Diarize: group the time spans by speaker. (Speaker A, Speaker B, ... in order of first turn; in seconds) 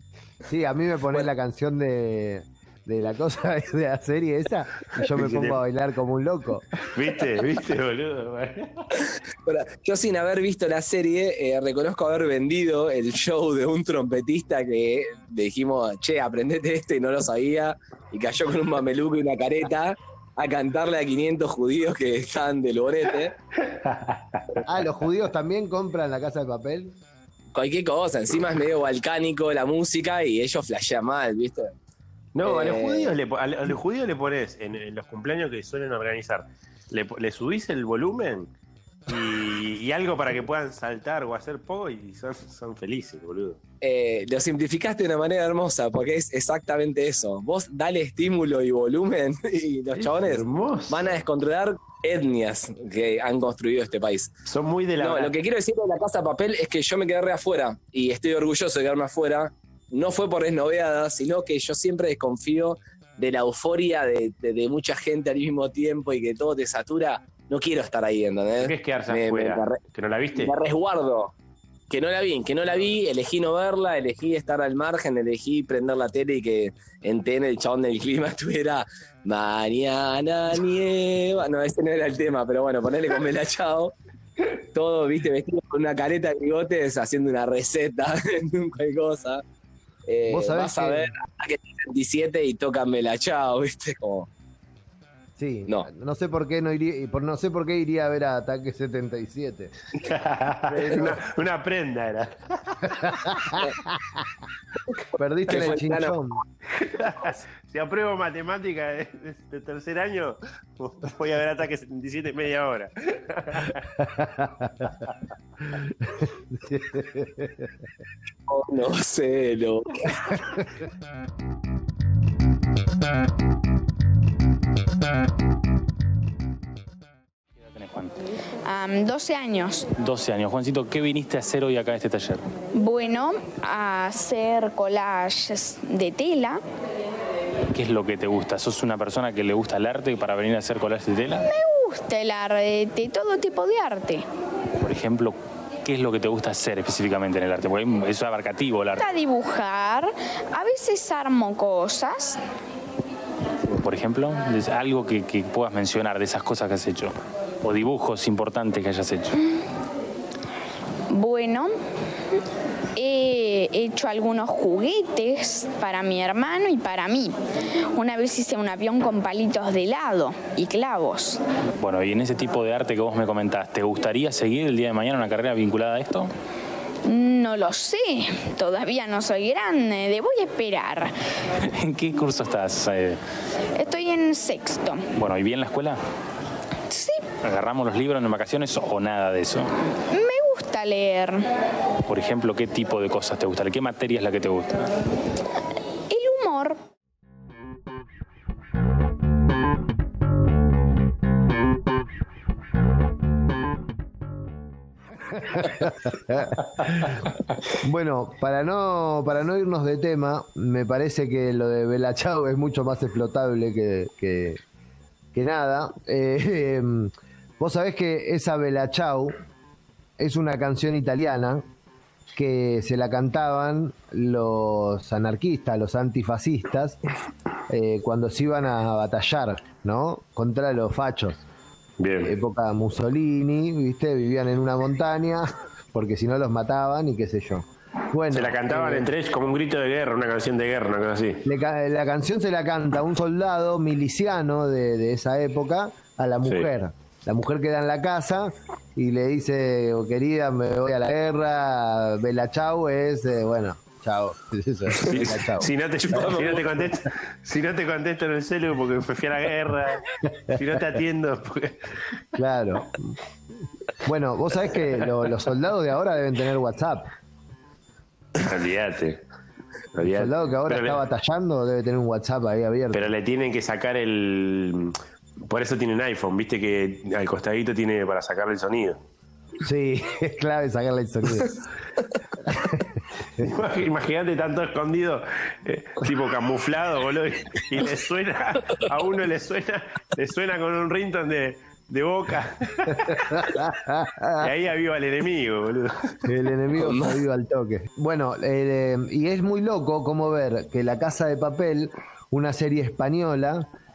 Speaker A: 0.5-6.7, 24.6-26.9, 90.3-91.1, 95.4-99.7, 100.7-101.2, 103.2-104.1, 105.1-106.4, 114.2-114.8, 116.5-117.7, 205.4-207.2, 207.8-214.6, 215.3-219.4, 220.2-221.6, 222.3-227.0, 227.7-231.4, 232.2-239.1, 241.4-255.7, 262.4-263.1, 264.0-267.1, 270.0-273.1, 279.6-281.6, 282.4-283.5, 292.9-294.5, 296.2-303.6
Speaker B: 5.1-5.6, 6.9-9.0, 23.6-24.6, 32.3-38.5, 39.1-43.6, 50.0-51.2, 54.5-55.3, 68.5-70.5, 100.0-103.6, 106.8-114.0, 232.0-232.3, 238.3-241.4, 254.9-261.8, 268.4-269.2, 269.9-271.0, 272.9-279.0, 283.4-293.5, 294.4-296.2
Speaker C: 9.4-23.3, 27.5-31.7, 32.4-33.2, 43.8-54.3, 55.0-69.8, 70.3-71.3, 71.9-84.0, 84.7-89.4, 90.0-94.3, 105.5-106.2, 118.5-120.2, 256.1-256.7, 296.7-297.2
Speaker D: 127.7-128.1, 130.0-132.4, 137.7-141.4, 144.8-149.0, 153.7-159.3, 171.8-176.3, 181.6-183.2, 185.1-186.0, 187.4-189.7, 192.1-194.9
Speaker E: 128.7-129.9, 132.7-136.6, 141.5-144.2, 149.0-152.4, 161.1-161.7, 162.9-167.3, 167.9-171.4, 177.1-181.1, 183.8-185.0, 186.9-187.2, 190.1-191.4, 196.1-196.8